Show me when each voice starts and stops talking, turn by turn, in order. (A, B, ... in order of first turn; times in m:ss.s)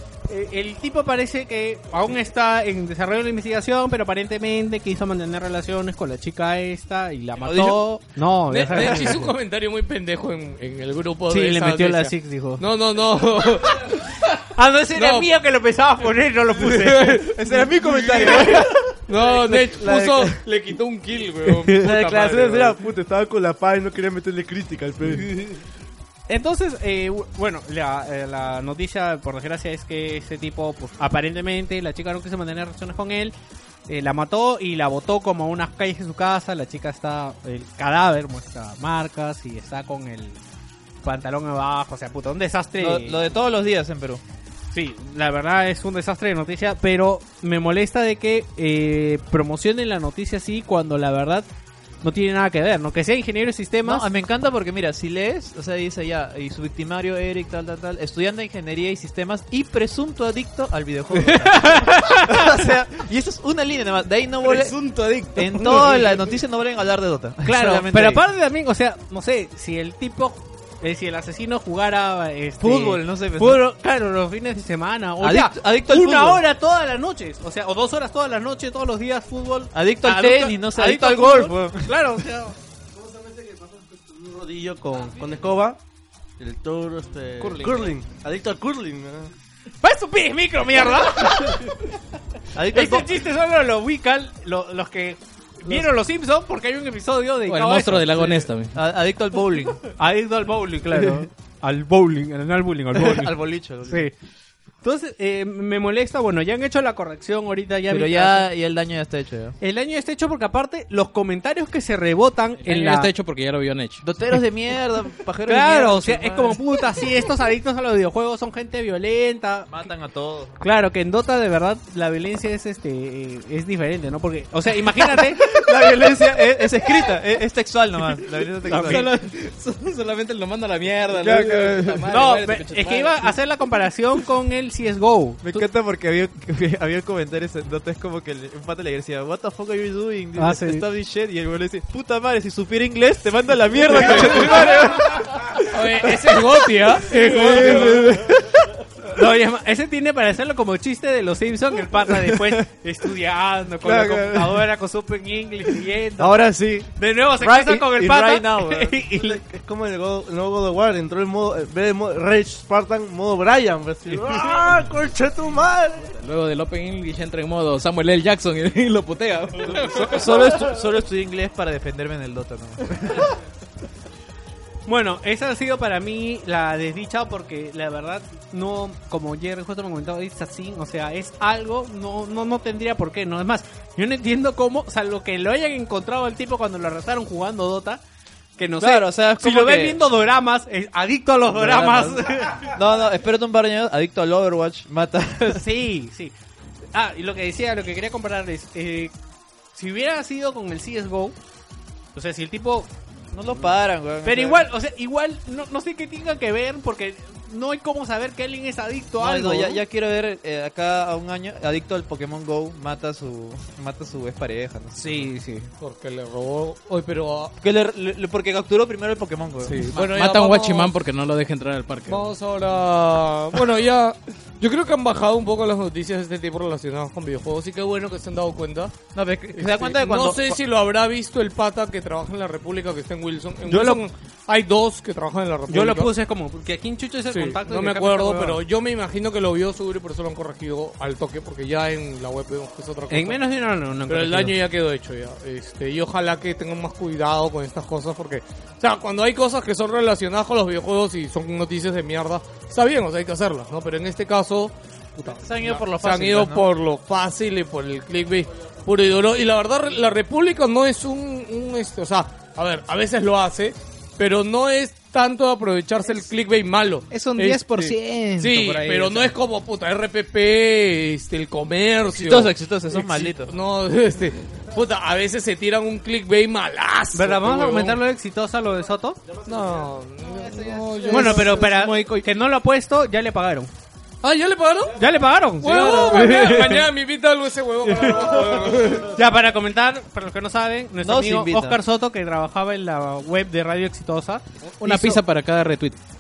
0:00.3-0:09.3 A
0:07.4-0:07.8 B
0:08.5-0:14.4 C
0:08.7-0:09.1 B
0:11.3-0:12.6 A
0:14.6-0:17.4 A
0:15.0-0:15.3 C
0:16.5-0:22.8 C
0:17.2-0:20.4 B
0:21.8-0:25.6 D
0:26.3-0:33.3 A
0:33.9-0:40.4 A
0:41.0-0:43.3 A
0:42.8-0:44.2 B
0:44.7-0:51.5 A
0:52.0-0:54.1 A
0:53.8-1:08.2 B
1:01.2-1:02.5 A
1:04.5-1:05.5 E
1:07.4-1:22.6 A
1:12.6-1:13.6 B
1:15.2-1:16.4 B
1:19.7-1:22.0 B
1:22.9-1:25.8 D
1:26.4-1:29.3 D
1:29.8-1:31.9 A
1:32.6-1:33.1 B
1:32.7-1:38.5 A
1:37.5-1:38.8 E
1:38.7-1:39.8 B
1:39.9-1:43.3 A
1:42.9-1:44.1 B
1:43.9-1:44.1 A
1:44.8-1:48.5 A
1:47.9-1:49.6 B
1:49.6-1:53.1 A
1:52.6-1:54.0 E
1:54.0-1:56.9 B
1:55.5-1:59.9 A
1:59.7-2:00.6 B
2:00.6-2:05.5 A
2:04.9-2:09.1 B
2:08.7-2:09.1 A
2:08.8-2:13.4 E
2:11.2-2:12.0 B
2:12.1-2:15.6 A
2:15.4-2:28.8 B
2:20.4-2:20.8 A
2:24.0-2:24.8 C
2:24.4-2:24.8 A
2:25.6-2:28.2 C
2:29.0-2:39.4 A
2:32.1-2:32.5 B
2:33.8-2:34.6 B
2:36.2-2:39.0 B
2:39.1-2:46.2 D
2:46.1-2:50.8 E
2:49.7-2:53.4 B
2:54.9-3:08.0 A
3:08.6-3:12.7 A
3:08.8-3:10.0 B
3:11.5-3:15.6 B
3:15.5-3:16.3 A
3:16.9-3:19.1 A
3:19.8-3:21.4 A
3:22.1-3:22.9 A
3:23.3-3:24.6 B
3:24.2-3:29.8 A
3:29.2-3:35.3 B
3:35.0-3:35.7 A
3:35.8-3:37.5 C
3:37.6-3:39.9 B
3:39.6-3:41.0 C
3:39.9-3:42.3 E
3:42.1-3:49.0 C
3:49.2-3:50.6 B
3:49.5-3:56.1 C
3:53.7-3:54.0 A
3:55.7-3:58.6 A
3:57.3-4:03.4 C
4:03.1-4:04.6 A
4:04.1-4:38.0 C
4:15.2-4:16.7 B
4:27.1-4:29.3 E
4:32.1-4:33.6 B
4:37.1-4:39.2 A
4:39.4-4:41.6 C
4:40.2-4:41.0 B
4:41.1-4:42.3 E
4:41.1-4:43.7 A
4:44.2-4:45.0 C
4:45.0-4:46.9 A
4:45.6-4:49.2 C
4:47.9-4:55.2 A
4:51.0-4:51.8 B
4:54.8-4:56.0 E